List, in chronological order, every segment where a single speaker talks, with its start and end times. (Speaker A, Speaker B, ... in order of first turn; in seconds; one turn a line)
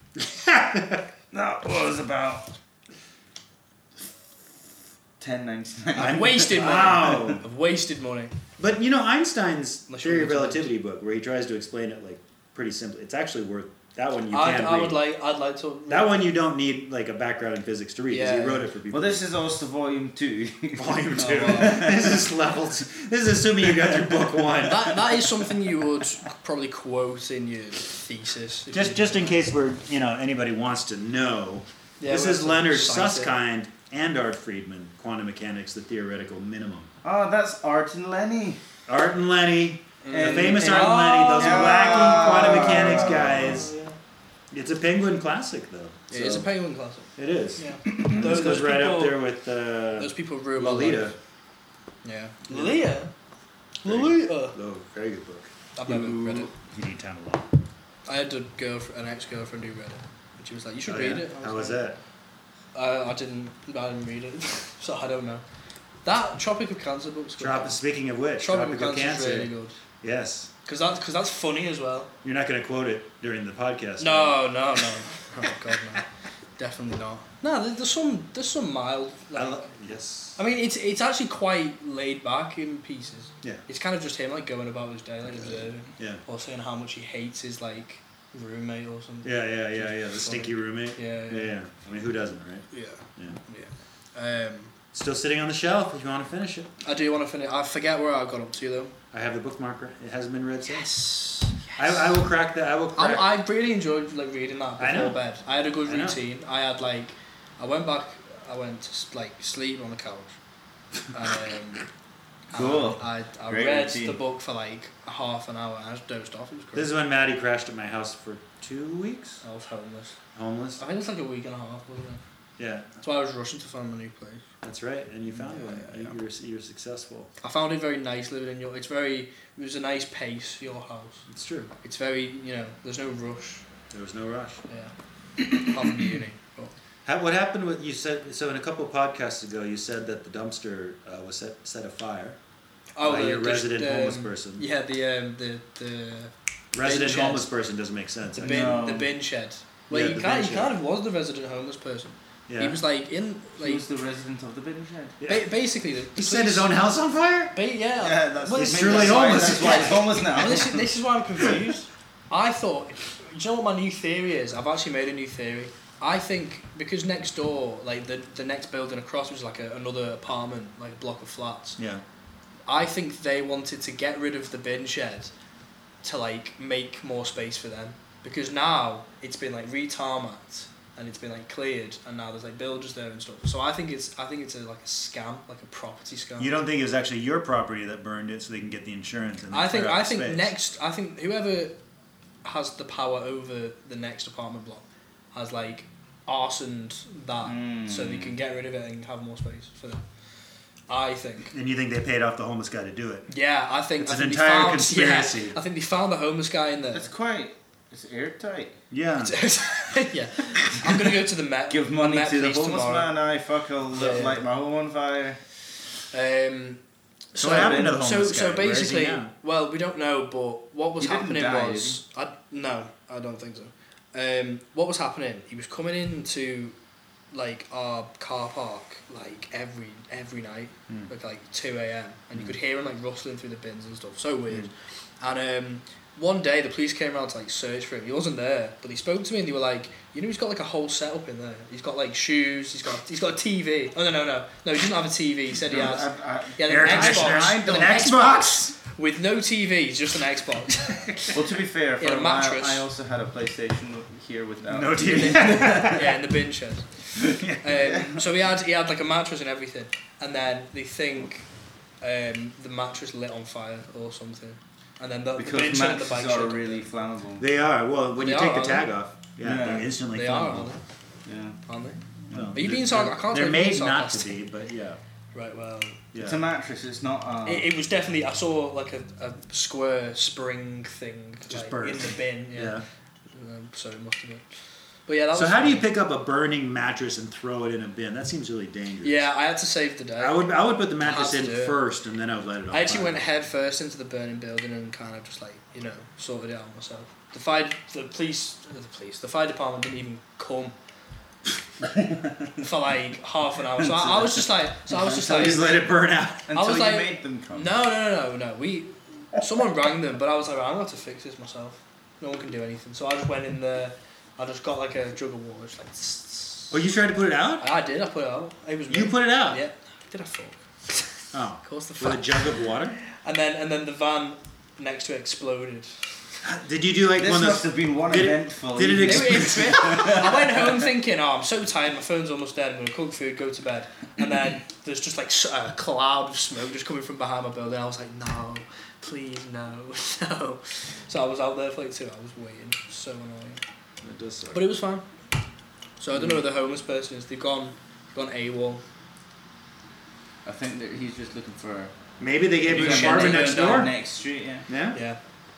Speaker A: 0.2-1.1
Speaker B: 1.3-2.5
Speaker B: 5.2-7.3
Speaker C: 6.0-8.3
Speaker A: 6.0-7.5
Speaker A: 8.6-15.1
Speaker C: 9.9-10.7
Speaker C: 14.3-16.3
Speaker A: 15.9-19.2
Speaker C: 18.1-18.7
Speaker B: 18.9-22.2
Speaker A: 20.8-25.0
Speaker C: 21.2-21.9
Speaker C: 24.7-29.4
Speaker A: 28.7-36.9
Speaker C: 32.0-33.4
Speaker B: 37.0-38.6
Speaker A: 38.9-43.7
Speaker C: 40.0-42.9
Speaker B: 40.1-43.7
Speaker C: 43.5-43.9
Speaker A: 44.5-46.5
Speaker C: 46.1-49.3
Speaker A: 47.2-51.2
Speaker B: 47.9-48.4
Speaker C: 50.0-51.1
Speaker C: 52.0-53.1
Speaker A: 52.5-52.9
Speaker C: 53.8-54.6
Speaker A: 53.8-57.5
Speaker C: 55.8-56.5
Speaker B: 55.9-56.5
Speaker C: 58.1-61.8
Speaker A: 60.9-62.0
Speaker C: 62.8-65.4
Speaker C: 66.0-67.8
Speaker A: 67.4-70.5
Speaker C: 68.4-69.8
Speaker C: 70.7-72.1
Speaker A: 72.2-74.5
Speaker C: 74.0-76.1
Speaker C: 76.6-79.7
Speaker A: 79.3-80.4
Speaker C: 80.4-91.5
Speaker A: 85.3-86.2
Speaker A: 89.2-93.4
Speaker C: 92.7-94.7
Speaker A: 94.9-96.7
Speaker C: 96.8-99.0
Speaker A: 99.1-100.9
Speaker C: 100.7-102.1
Speaker A: 101.8-103.3
Speaker C: 103.0-110.4
Speaker A: 104.8-105.2
Speaker A: 105.8-106.2
Speaker C: 111.1-111.8
Speaker C: 112.5-116.9
Speaker B: 112.5-114.2
Speaker A: 116.8-119.4
Speaker C: 119.4-120.2
Speaker A: 120.3-120.8
Speaker C: 120.8-122.2
Speaker A: 122.6-122.9
Speaker C: 123.0-124.4
Speaker A: 124.6-127.3
Speaker C: 125.3-126.2
Speaker C: 127.4-131.2
Speaker A: 131.3-131.7
Speaker C: 131.8-133.6
Speaker A: 133.9-134.6
Speaker C: 134.7-136.7
Speaker A: 137.1-142.4
Speaker C: 143.0-147.5
Speaker A: 143.0-144.7
Speaker A: 146.7-148.8
Speaker C: 148.4-153.8
Speaker B: 148.4-149.2
Speaker A: 149.9-150.8
Speaker A: 152.5-152.8
Speaker B: 153.6-155.2
Speaker A: 155.2-155.6
Speaker C: 155.3-156.7
Speaker A: 156.1-157.6
Speaker C: 157.6-171.8
Speaker B: 158.0-160.9
Speaker A: 158.5-160.1
Speaker A: 171.8-172.0
Speaker C: 172.7-175.3
Speaker C: 176.0-186.5
Speaker A: 186.4-190.5
Speaker C: 189.5-191.8
Speaker C: 192.4-200.0
Speaker B: 197.4-198.4
Speaker C: 200.9-201.5
Speaker A: 201.5-203.3
Speaker C: 203.3-207.1
Speaker A: 204.0-205.6
Speaker B: 206.9-208.8
Speaker A: 208.9-209.3
Speaker C: 209.2-213.1
Speaker B: 211.7-215.4
Speaker C: 213.9-214.4
Speaker C: 216.1-216.8
Speaker C: 217.3-226.8
Speaker B: 217.4-218.4
Speaker A: 217.4-219.3
Speaker B: 221.0-222.0
Speaker C: 227.3-251.3
Speaker B: 245.6-248.0
Speaker A: 246.7-248.7
Speaker B: 251.3-255.9
Speaker C: 252.0-252.9
Speaker A: 254.7-256.1
Speaker C: 255.0-261.4
Speaker B: 257.3-258.3
Speaker C: 262.0-266.9
Speaker B: 265.4-267.4
Speaker A: 267.4-270.7
Speaker C: 268.2-268.9
Speaker B: 269.4-269.9
Speaker C: 270.1-270.8
Speaker B: 271.3-271.6
Speaker C: 271.7-272.0
Speaker B: 272.3-272.6
Speaker A: 272.3-275.0
Speaker C: 272.5-274.4
Speaker C: 275.3-276.0
Speaker A: 276.1-276.4
Speaker B: 276.2-277.7
Speaker C: 277.4-284.4
Speaker A: 281.5-282.9
Speaker C: 285.1-285.9
Speaker A: 285.3-289.3
Speaker C: 289.0-291.8
Speaker A: 290.2-293.2
Speaker C: 292.7-300.8
Speaker C: 302.6-305.8
Speaker B: 303.9-304.4
Speaker A: 304.9-306.5
Speaker B: 305.3-305.8
Speaker B: 306.5-307.8
Speaker C: 306.5-316.8
Speaker A: 316.7-317.7
Speaker C: 317.6-325.9
Speaker A: 318.9-319.6
Speaker A: 321.3-323.0
Speaker A: 326.4-330.3
Speaker B: 327.2-330.7
Speaker C: 329.0-343.6
Speaker A: 344.0-344.7
Speaker C: 344.5-345.1
Speaker C: 346.0-348.8
Speaker A: 346.1-346.4
Speaker B: 350.4-351.9
Speaker A: 352.2-354.0
Speaker C: 352.7-353.9
Speaker B: 352.7-354.7
Speaker A: 354.7-355.0
Speaker C: 354.9-355.2